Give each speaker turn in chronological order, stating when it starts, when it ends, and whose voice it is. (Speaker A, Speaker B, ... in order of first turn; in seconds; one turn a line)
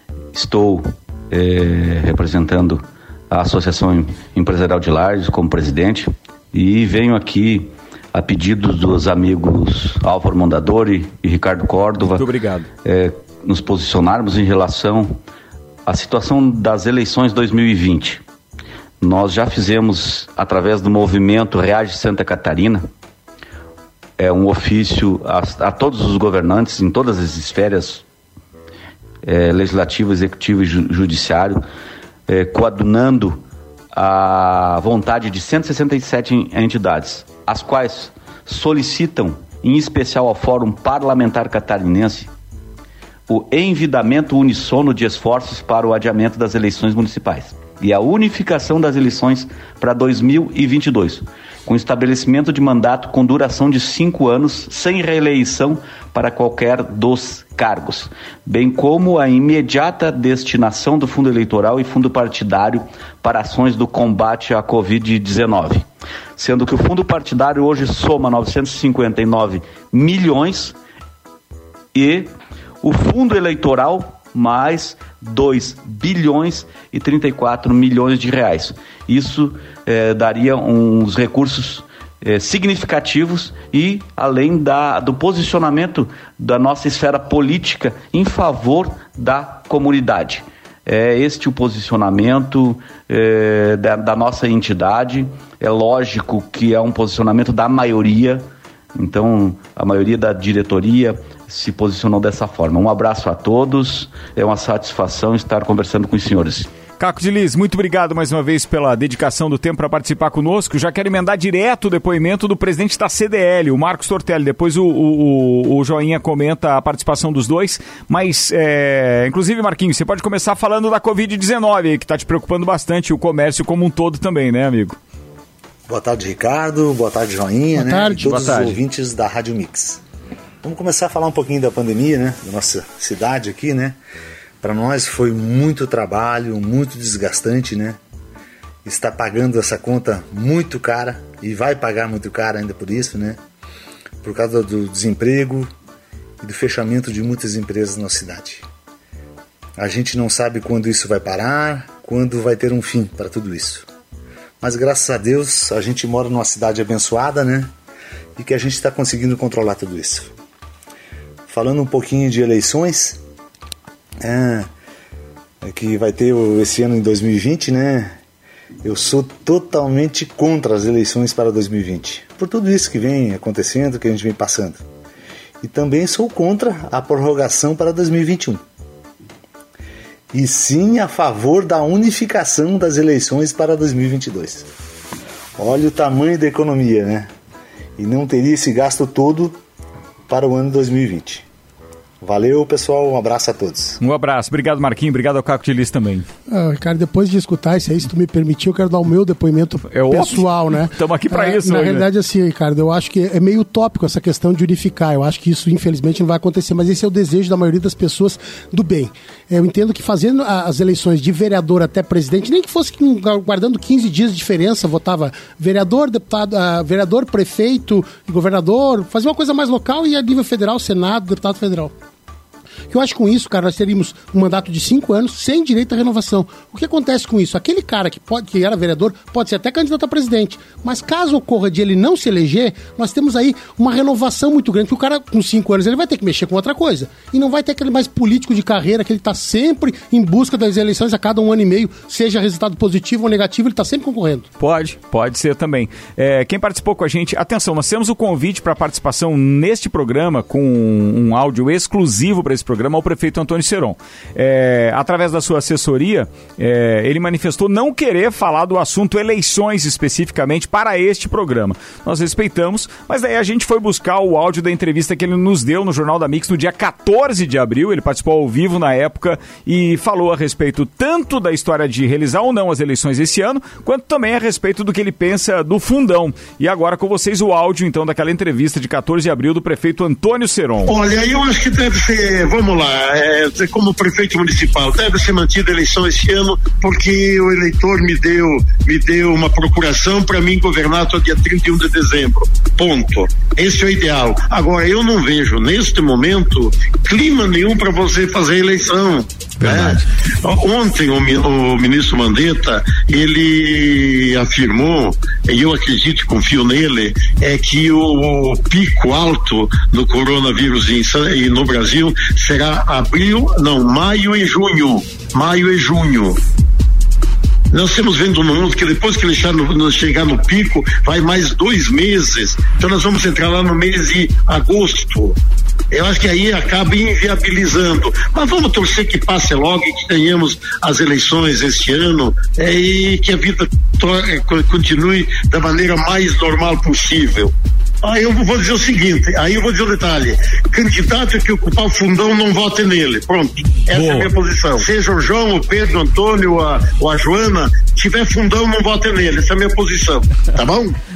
Speaker A: 0.3-12.2
Speaker B: 12.1-12.7
Speaker A: 12.8-15.2
Speaker A: 15.8-18.2
Speaker A: 19.0-22.9
Speaker A: 24.2-28.0
Speaker A: 29.2-31.6
Speaker A: 32.3-33.4
Speaker A: 33.9-42.3
Speaker A: 43.3-70.8
Speaker A: 71.9-72.3
Speaker A: 72.8-106.7
Speaker B: 107.0-125.0
Speaker C: 125.9-130.0
Speaker D: 127.7-128.6
Speaker B: 128.2-128.8
Speaker C: 130.6-134.0
Speaker C: 134.6-138.0
Speaker C: 138.8-143.4
Speaker C: 144.2-145.7
Speaker C: 146.4-148.6
Speaker C: 149.8-153.9
Speaker C: 154.6-157.7
Speaker C: 158.4-160.3
Speaker C: 161.5-163.2
Speaker C: 164.2-164.7
Speaker C: 165.6-168.2
Speaker C: 168.8-174.8
Speaker C: 175.6-178.6
Speaker C: 180.3-184.7
Speaker C: 185.6-187.3
Speaker C: 188.0-189.6
Speaker C: 190.3-191.4
Speaker C: 192.2-194.0
Speaker B: 194.0-196.2
Speaker D: 196.5-221.9
Speaker B: 199.9-202.1
Speaker D: 222.9-244.5
Speaker B: 244.6-280.9
Speaker E: 280.9-316.4
Speaker B: 299.6-300.0
Speaker E: 317.7-325.4
Speaker E: 325.9-337.5
Speaker E: 338.0-350.9
Speaker B: 343.9-344.3